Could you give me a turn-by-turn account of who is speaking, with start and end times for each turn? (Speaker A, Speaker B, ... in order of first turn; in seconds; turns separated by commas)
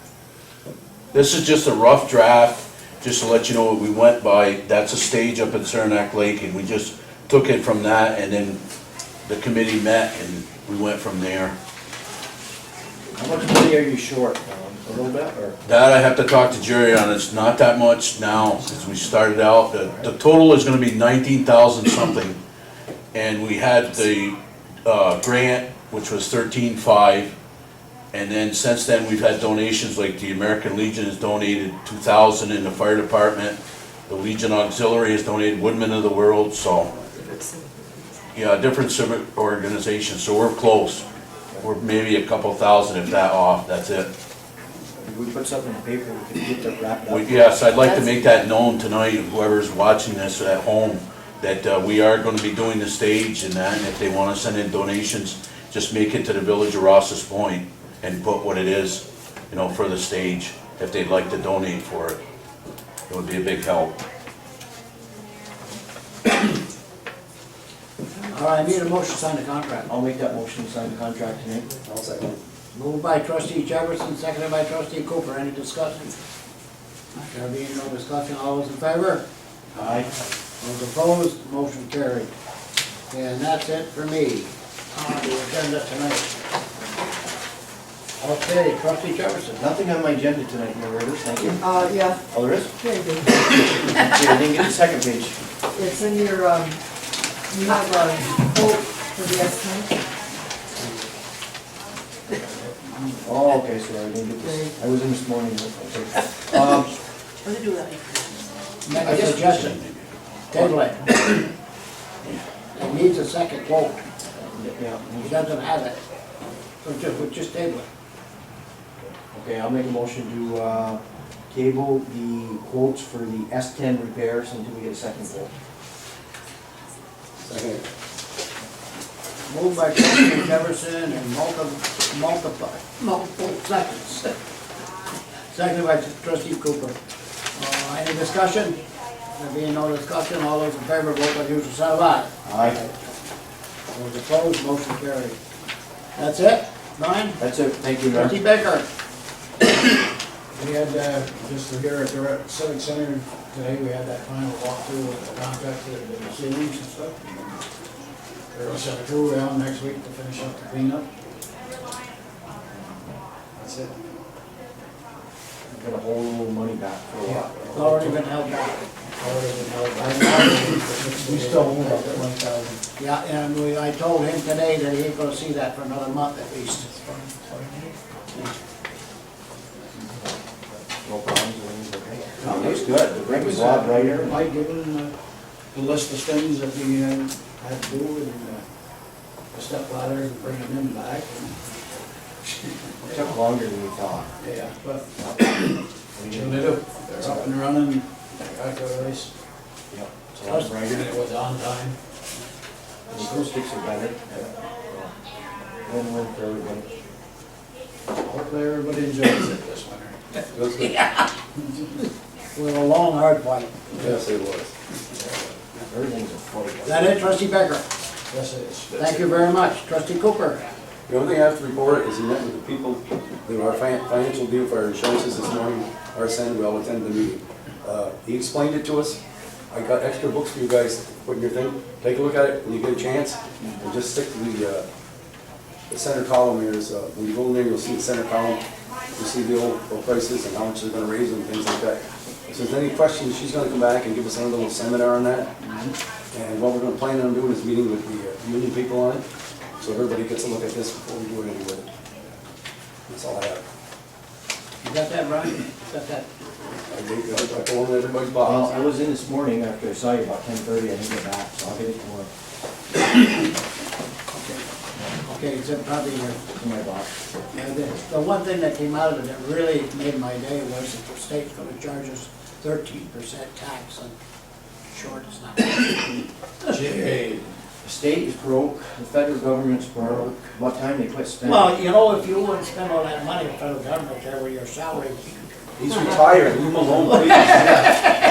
Speaker A: 1.1-8.6, Speaker A: 9.2-11.5, Speaker B: 13.1-15.6, Speaker A: 15.6-22.4, Speaker A: 23.1-27.3, Speaker A: 28.1-33.6, Speaker A: 34.1-36.9, Speaker C: 37.2-37.5, Speaker A: 38.3-41.0, Speaker A: 41.6-44.1, Speaker B: 45.0-47.6, Speaker A: 47.1-62.2, Speaker A: 63.1-64.0, Speaker D: 68.3-69.9, Speaker B: 69.9-71.7, Speaker E: 71.8-72.4, Speaker D: 72.7-76.1, Speaker D: 77.1-79.2, Speaker B: 79.7-80.1, Speaker D: 80.6-82.3, Speaker D: 83.1-86.3, Speaker D: 88.2-89.6, Speaker B: 89.5-91.7, Speaker C: 91.6-92.2, Speaker B: 92.3-92.7, Speaker C: 92.8-93.3, Speaker B: 93.4-95.4, Speaker C: 95.7-96.8, Speaker C: 97.5-99.9, Speaker B: 103.2-106.9, Speaker C: 104.4-104.7, Speaker D: 108.8-109.8, Speaker A: 109.0-110.1, Speaker D: 110.5-111.5, Speaker D: 112.7-114.0, Speaker B: 114.4-115.4, Speaker D: 115.2-116.0, Speaker D: 116.8-117.8, Speaker B: 119.3-125.5, Speaker E: 127.4-127.8, Speaker D: 129.5-134.3, Speaker D: 135.5-137.0, Speaker D: 137.5-138.8, Speaker D: 139.3-142.9, Speaker B: 142.4-142.8, Speaker D: 143.9-145.4, Speaker D: 146.2-147.4, Speaker B: 147.4-148.4, Speaker D: 148.1-148.8, Speaker F: 150.5-157.2, Speaker F: 158.5-161.1, Speaker F: 163.5-163.9, Speaker B: 165.7-167.9, Speaker D: 167.2-168.8, Speaker F: 167.8-168.2, Speaker F: 169.2-172.3, Speaker D: 169.9-178.4, Speaker B: 180.9-184.4, Speaker F: 182.4-185.1, Speaker F: 185.7-188.6, Speaker F: 189.5-191.6, Speaker B: 193.0-194.3, Speaker F: 194.4-199.3, Speaker B: 196.1-197.5, Speaker B: 199.9-200.8, Speaker F: 200.4-201.9, Speaker B: 203.1-205.1, Speaker B: 205.8-206.9, Speaker F: 208.2-210.2, Speaker E: 210.5-210.9, Speaker D: 212.5-213.8, Speaker E: 213.9-214.7, Speaker B: 215.7-217.3, Speaker D: 216.8-217.8, Speaker F: 218.3-219.5, Speaker D: 218.9-220.7, Speaker E: 221.1-229.2, Speaker E: 229.7-234.9, Speaker E: 235.9-238.6, Speaker E: 239.1-245.6, Speaker E: 246.3-249.2, Speaker E: 249.8-251.9, Speaker E: 253.1-253.6, Speaker D: 254.8-256.3, Speaker E: 256.9-258.7, Speaker B: 258.4-262.3, Speaker D: 265.2-266.4, Speaker B: 266.5-267.1, Speaker D: 267.5-274.1, Speaker D: 274.9-276.7, Speaker F: 276.7-277.5, Speaker B: 277.8-281.8, Speaker D: 281.4-285.3, Speaker E: 285.8-287.9, Speaker D: 287.2-287.5, Speaker F: 287.4-287.9